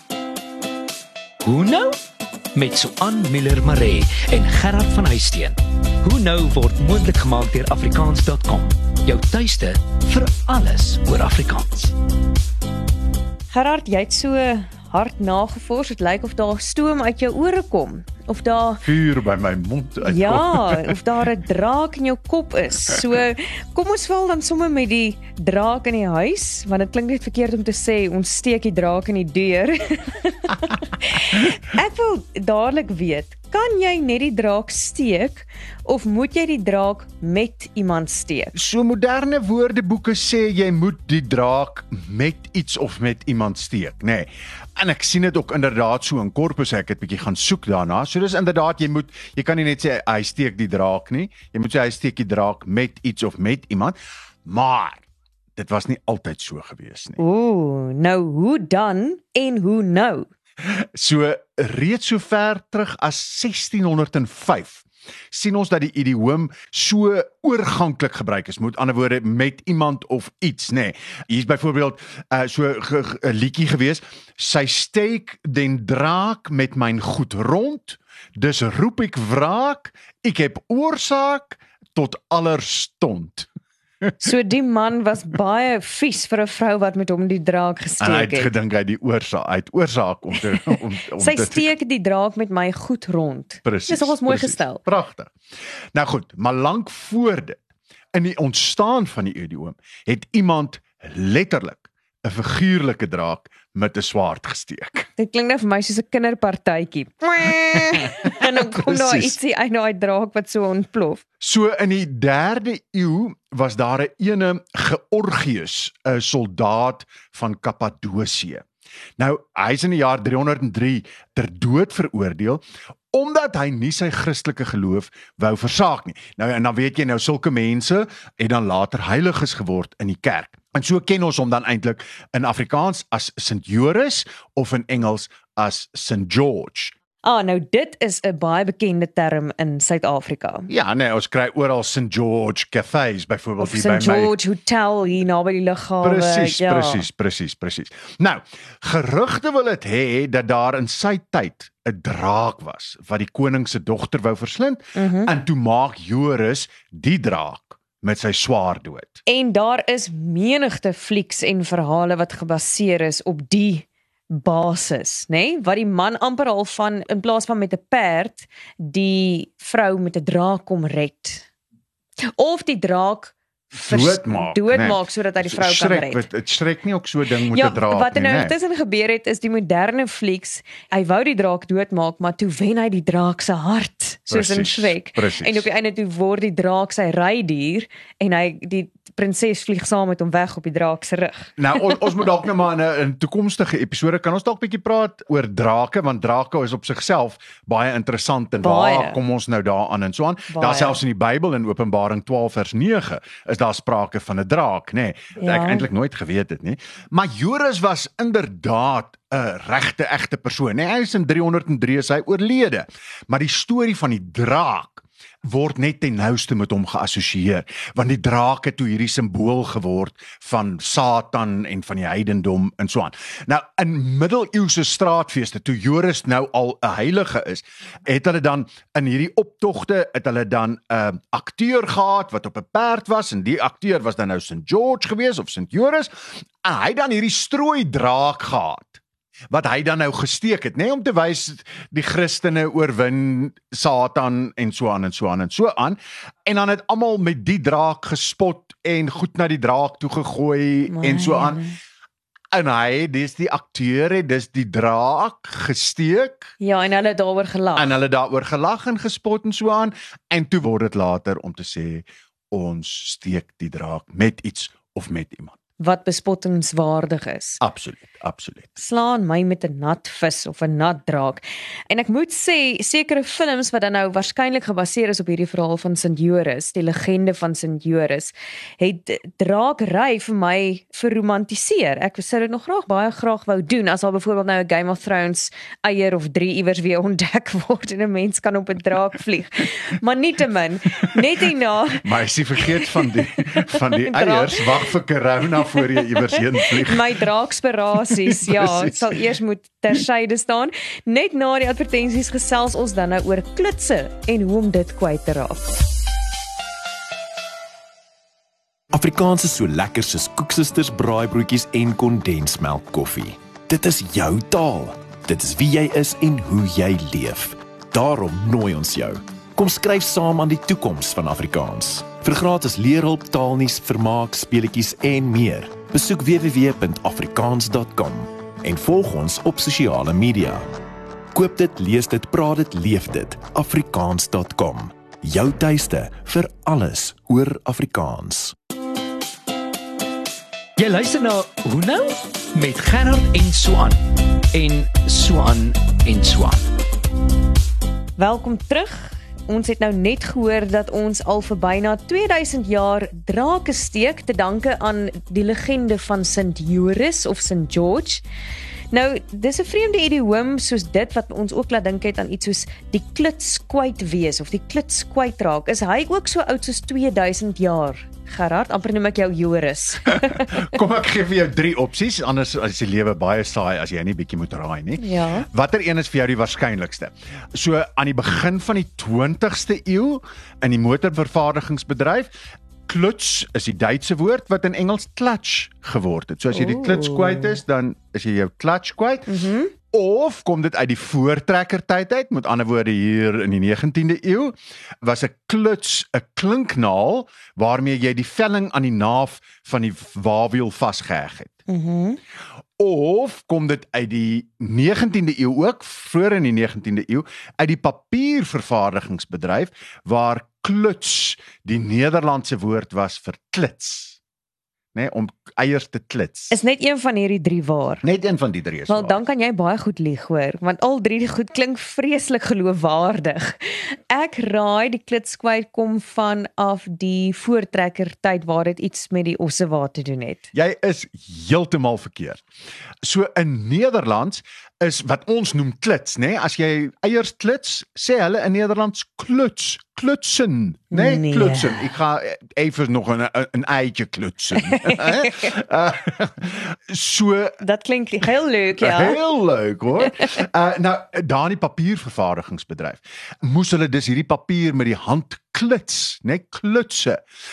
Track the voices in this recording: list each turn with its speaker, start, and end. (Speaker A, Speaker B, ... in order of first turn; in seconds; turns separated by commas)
Speaker A: 1.4-2.0, Speaker A: 2.5-11.9, Speaker B: 13.5-18.8, Speaker C: 18.8-20.9, Speaker B: 20.0-38.5, Speaker C: 38.5-55.0, Speaker C: 55.5-57.2, Speaker B: 57.2-60.3, Speaker C: 60.6-83.5, Speaker B: 84.2-88.5, Speaker C: 88.0-91.7, Speaker B: 90.5-94.8, Speaker C: 93.6-95.3, Speaker C: 95.9-97.6, Speaker C: 98.1-105.1, Speaker B: 105.2-111.2, Speaker C: 107.7-109.4, Speaker C: 111.4-118.6, Speaker C: 119.2-136.9, Speaker B: 137.2-140.7, Speaker C: 140.7-144.3, Speaker B: 143.6-147.0, Speaker C: 146.0-159.2, Speaker B: 154.9-155.3, Speaker B: 159.2-171.5, Speaker B: 172.3-176.2, Speaker C: 173.7-178.5, Speaker B: 177.5-192.0, Speaker C: 184.3-185.6, Speaker C: 191.6-251.6, Speaker B: 198.6-199.2, Speaker B: 200.5-201.0, Speaker B: 205.3-205.9, Speaker B: 250.9-251.8, Speaker C: 252.5-256.5, Speaker B: 256.6-258.0, Speaker C: 257.8-265.6, Speaker B: 265.8-267.6, Speaker C: 267.6-268.7, Speaker B: 268.8-292.0, Speaker C: 292.0-297.2, Speaker B: 292.8-294.9, Speaker B: 295.8-296.0, Speaker B: 296.6-305.8, Speaker C: 298.1-299.2, Speaker A: 308.9-309.6, Speaker D: 309.1-313.1, Speaker A: 310.3-311.4, Speaker A: 313.1-314.1, Speaker D: 313.7-317.3, Speaker A: 315.6-322.2, Speaker D: 317.9-318.9, Speaker D: 319.6-327.7, Speaker A: 324.4-328.2, Speaker D: 328.6-330.4, Speaker A: 328.9-330.6, Speaker D: 331.4-338.5, Speaker A: 331.4-332.3, Speaker A: 334.0-334.6, Speaker A: 336.6-337.3, Speaker A: 340.8-344.0, Speaker A: 344.5-346.6, Speaker B: 348.2-358.2, Speaker B: 358.9-370.7, Speaker C: 370.3-382.3, Speaker B: 375.0-375.5, Speaker C: 382.9-389.3, Speaker B: 386.5-387.6, Speaker B: 389.3-389.7, Speaker C: 389.9-401.6, Speaker B: 401.7-402.2, Speaker C: 402.8-414.2, Speaker C: 414.9-416.5, Speaker B: 416.5-418.0, Speaker C: 418.0-419.2, Speaker B: 418.9-430.5, Speaker C: 430.5-432.4, Speaker C: 433.0-447.6, Speaker B: 440.9-441.9, Speaker B: 444.6-445.4, Speaker B: 447.6-449.2, Speaker C: 448.8-457.2, Speaker B: 450.0-450.3